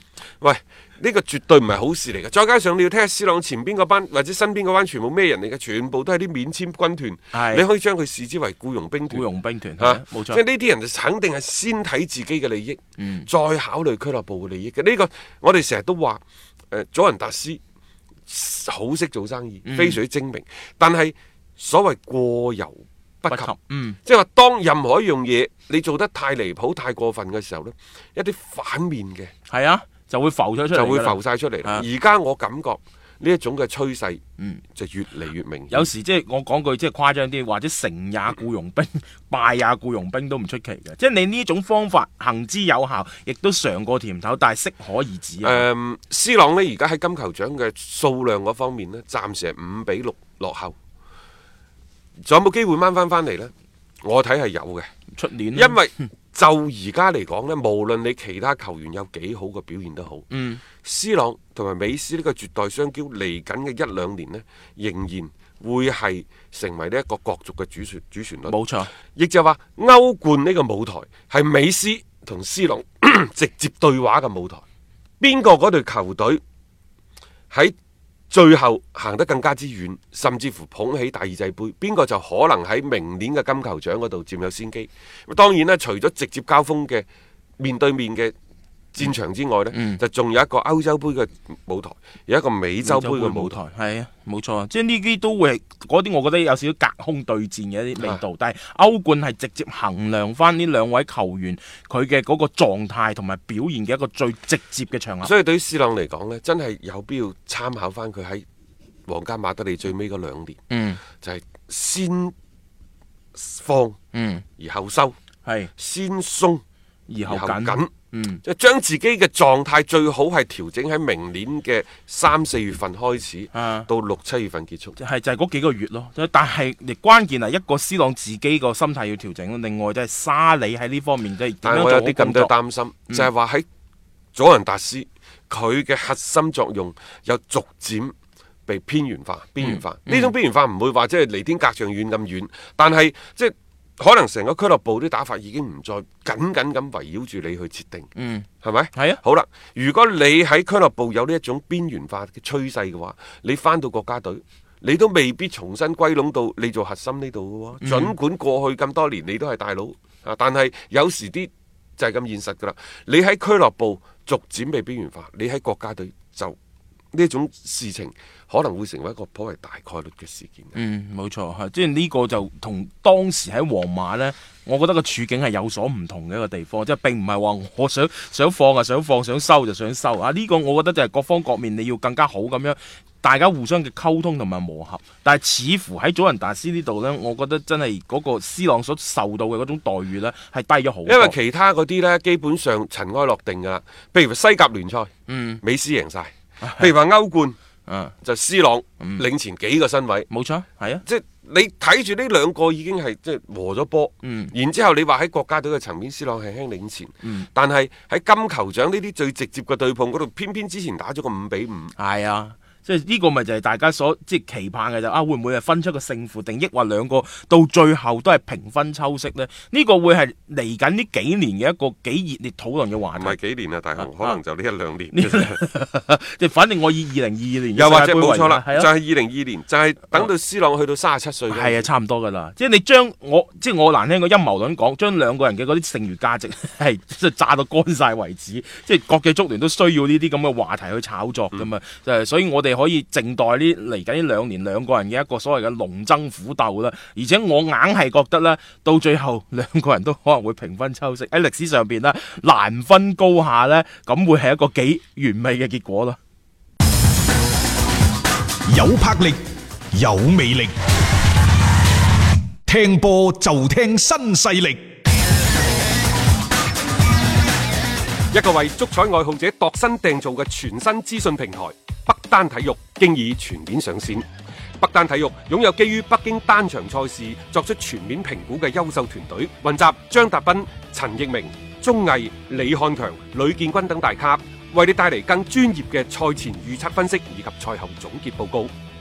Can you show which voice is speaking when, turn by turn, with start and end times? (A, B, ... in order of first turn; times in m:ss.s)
0:00.4-0:09.2 A
0:07.3-0:07.6 B
0:09.1-0:10.4 B
0:09.8-0:17.6 A
0:13.0-0:13.3 B
0:18.3-0:23.5 A
0:19.6-0:20.0 B
0:23.3-0:24.0 B
0:24.0-0:29.3 A
0:29.5-0:31.8 B
0:30.7-0:34.2 A
0:34.8-0:35.9 A
0:35.7-0:45.7 B
0:45.4-0:50.8 A
0:52.2-0:53.5 A
0:54.0-0:54.9 A
0:55.1-0:55.8 B
0:55.6-1:00.3 A
1:00.3-1:00.6 B
1:00.8-1:08.6 A
1:08.5-1:08.9 B
1:09.2-1:14.6 A
1:15.2-1:16.4 A
1:18.3-1:27.1 A
1:27.6-1:28.3 A
1:28.9-1:33.6 A
1:29.7-1:30.0 B
1:32.8-1:45.3 B
1:45.2-1:48.4 A
1:49.1-1:50.6 A
1:50.7-1:51.0 B
1:51.2-1:52.3 A
1:53.4-1:54.0 A
1:54.1-1:54.4 B
1:54.6-1:55.2 A
1:55.4-1:55.7 B
1:55.8-1:56.6 A
1:57.1-1:58.4 B
1:57.3-1:57.9 A
1:58.4-2:05.0 A
2:03.5-2:03.9 B
2:05.0-2:12.5 B
2:11.6-2:13.7 A
2:14.4-2:18.1 A
2:18.7-2:28.1 A
2:19.6-2:20.3 B
2:28.2-2:29.2 B
2:28.6-2:46.6 A
2:37.8-2:38.1 B
2:47.1-2:50.8 A
2:50.8-3:11.3 B
3:11.1-3:15.1 A
3:15.3-3:15.6 B
3:15.6-3:17.6 A
3:16.6-3:16.9 B
3:17.9-3:18.1 B
3:18.2-3:20.3 A
3:20.3-3:21.0 B
3:21.0-3:31.9 A
3:24.2-3:24.5 B
3:27.2-3:27.5 B
3:32.0-3:43.4 B
3:43.2-3:45.6 A
3:44.0-3:44.4 B
3:45.1-3:48.9 B
3:47.8-3:51.9 A
3:51.5-4:16.2 B
4:18.7-4:19.4 C
4:19.9-4:20.7 C
4:22.7-4:24.8 C
4:28.3-4:34.3 A
4:34.8-4:48.7 A